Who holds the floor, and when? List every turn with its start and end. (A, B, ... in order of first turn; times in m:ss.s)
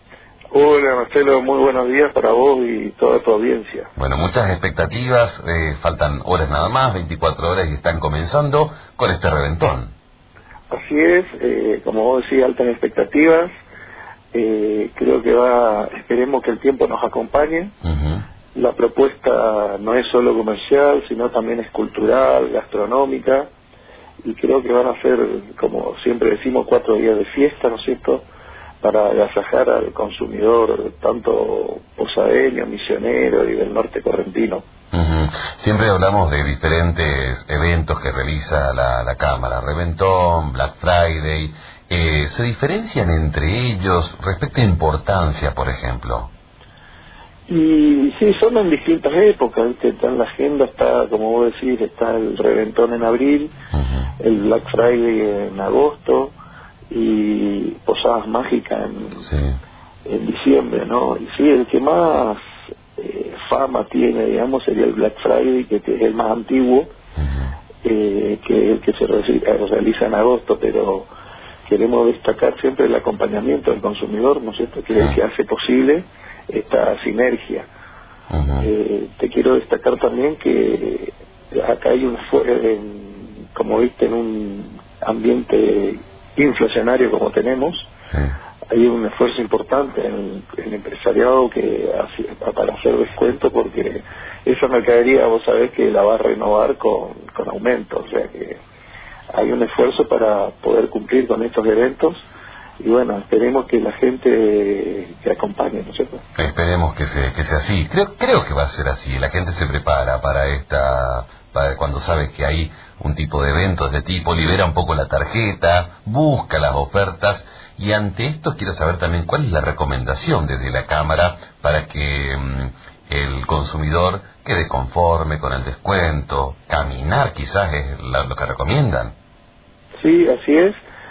0:00.5-0:03.9 A
0:04.0-0:09.9 B
0:10.7-0:13.5 A
0:14.3-0:17.7 A
0:17.8-0:18.2 B
0:18.5-0:23.5 A
0:24.2-0:28.2 A
0:28.8-0:34.6 A
0:34.9-0:46.3 B
0:47.5-0:53.5 A
0:53.7-0:54.1 B
0:54.2-0:56.3 A
0:56.9-0:59.3 A
0:59.2-0:59.6 B
1:00.0-1:02.4 A
1:03.0-1:06.9 A
1:07.2-1:07.5 B
1:07.8-1:11.1 A
1:11.7-1:17.7 A
1:18.3-1:18.7 B
1:18.6-1:27.9 A
1:28.7-1:38.6 A
1:39.3-1:42.2 A
1:42.8-1:46.2 A
1:46.4-2:09.1 B
2:10.0-2:10.8 A